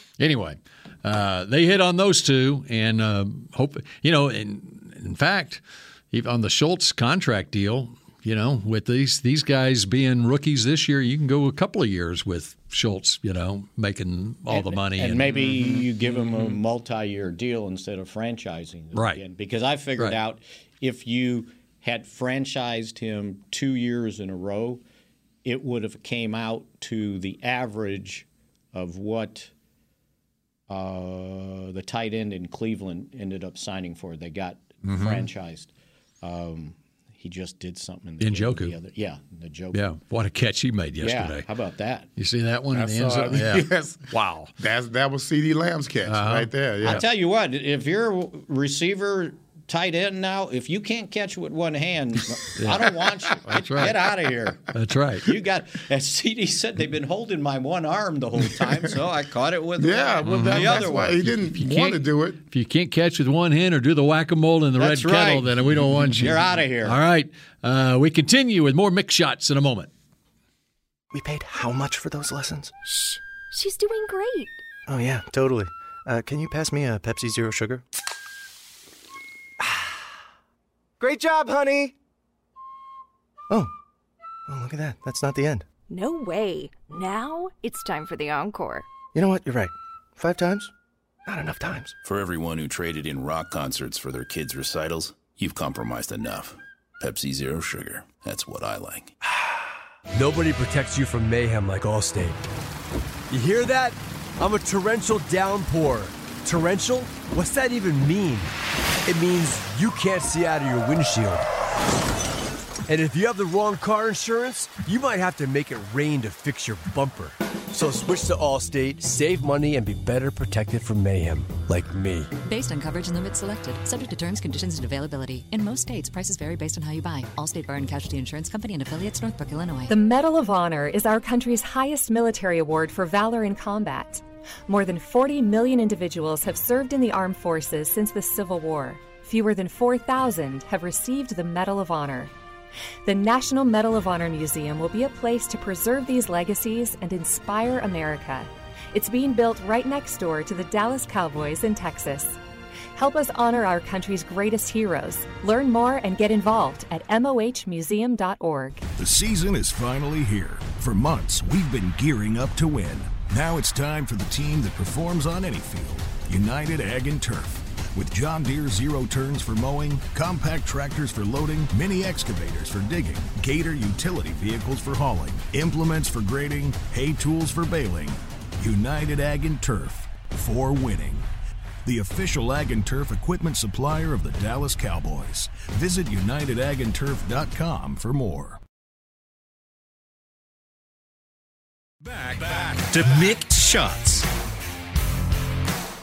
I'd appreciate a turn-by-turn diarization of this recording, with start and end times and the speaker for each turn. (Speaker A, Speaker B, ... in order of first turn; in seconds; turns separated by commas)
Speaker A: 0.2-15.4, Speaker B: 14.5-24.8, Speaker C: 15.3-16.6, Speaker A: 18.9-19.2, Speaker B: 25.4-29.5, Speaker B: 30.7-35.7, Speaker A: 34.8-35.2, Speaker B: 36.2-39.8, Speaker A: 38.2-38.7, Speaker A: 39.7-41.5, Speaker B: 41.0-42.1, Speaker A: 42.2-44.5, Speaker C: 42.7-47.0, Speaker A: 46.0-47.0, Speaker B: 46.8-54.6, Speaker A: 52.6-54.0, Speaker A: 54.7-55.3, Speaker B: 55.2-61.2, Speaker C: 59.8-62.4, Speaker A: 60.2-69.9, Speaker B: 64.8-65.6, Speaker B: 66.2-67.0, Speaker D: 71.1-72.7, Speaker E: 73.5-74.6, Speaker D: 74.9-77.8, Speaker D: 79.6-80.0, Speaker D: 81.0-81.9, Speaker D: 84.5-85.7, Speaker E: 85.9-88.9, Speaker D: 89.1-90.7, Speaker D: 91.2-91.9, Speaker F: 92.0-99.1, Speaker G: 100.1-102.4, Speaker G: 103.3-108.5, Speaker G: 109.0-111.5, Speaker G: 112.9-122.3, Speaker H: 122.4-129.9, Speaker I: 129.9-142.3, Speaker I: 143.0-152.4, Speaker I: 152.9-158.8, Speaker J: 159.0-181.3, Speaker J: 181.8-188.6, Speaker K: 192.1-194.3